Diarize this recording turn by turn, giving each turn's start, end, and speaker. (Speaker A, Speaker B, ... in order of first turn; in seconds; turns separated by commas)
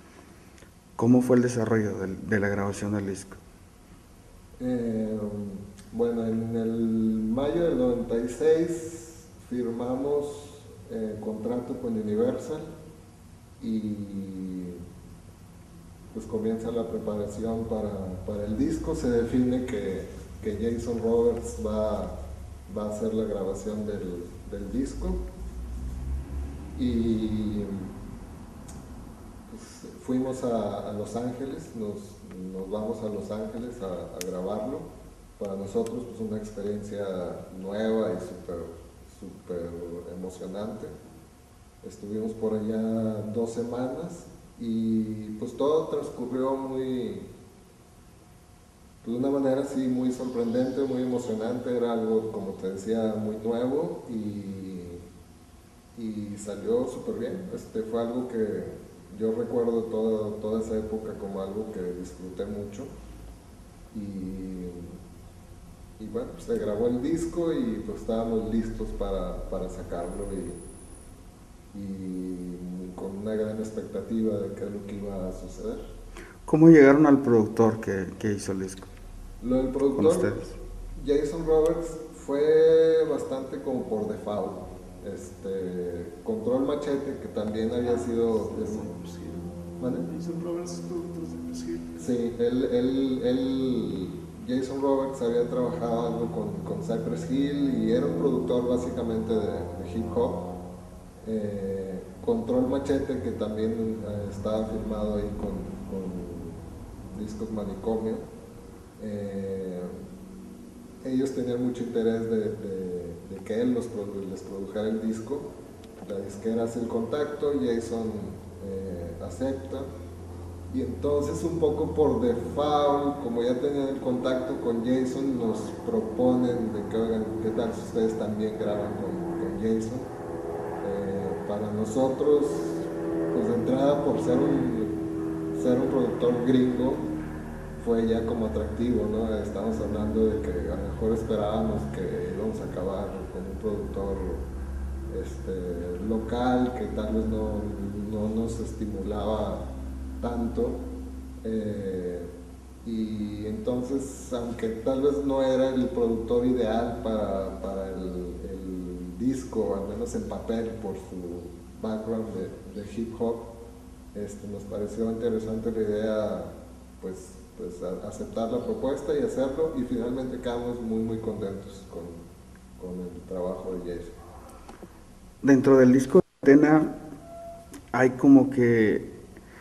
Speaker A: 1.0-3.4, Speaker B: 4.6-12.7, Speaker B: 13.6-14.8, Speaker B: 16.1-25.2, Speaker B: 26.8-27.9, Speaker B: 29.5-40.9, Speaker B: 41.8-47.3, Speaker B: 49.0-55.0, Speaker B: 56.0-62.9, Speaker B: 63.9-65.0, Speaker B: 66.0-70.6, Speaker B: 71.7-75.8, Speaker A: 76.5-78.9, Speaker B: 79.4-80.3, Speaker A: 80.0-80.6, Speaker B: 81.0-88.9, Speaker C: 88.0-91.8, Speaker B: 89.8-90.1, Speaker B: 92.0-100.5, Speaker B: 101.2-108.2, Speaker B: 109.0-110.0, Speaker B: 111.0-119.9, Speaker B: 120.7-130.1, Speaker B: 130.8-135.0, Speaker B: 135.5-137.1, Speaker B: 137.8-144.5, Speaker B: 145.1-150.8, Speaker B: 151.4-163.5, Speaker B: 164.1-174.2, Speaker A: 175.4-176.9, Speaker A: 177.9-179.1